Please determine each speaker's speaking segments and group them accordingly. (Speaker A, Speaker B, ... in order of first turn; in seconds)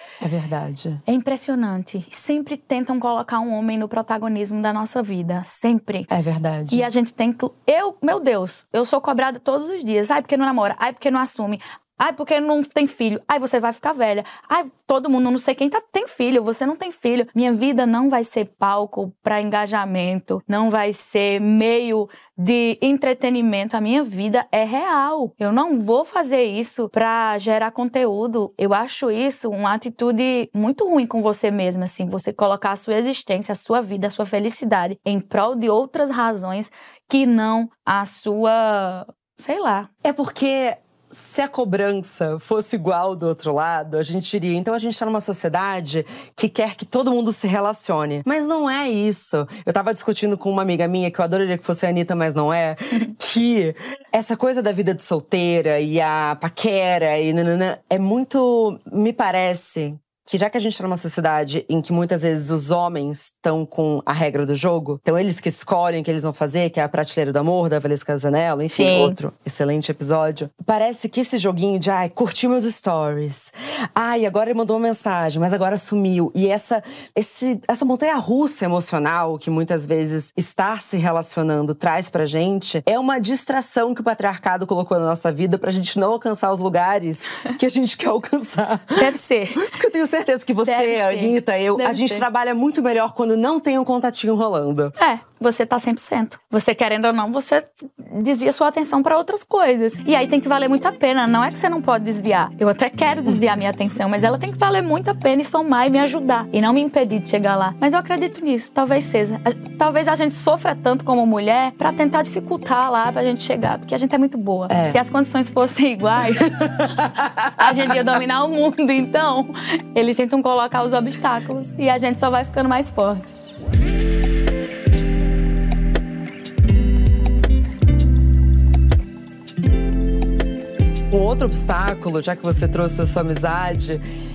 Speaker A: 0.2-1.0, 6.1-6.9, 40.0-95.0, 114.7-115.0, 116.5-117.8, 131.1-134.0
Speaker B: 1.1-6.1, 6.7-39.9, 68.8-69.2, 89.0-89.7, 90.7-92.3, 95.0-116.6, 117.5-123.4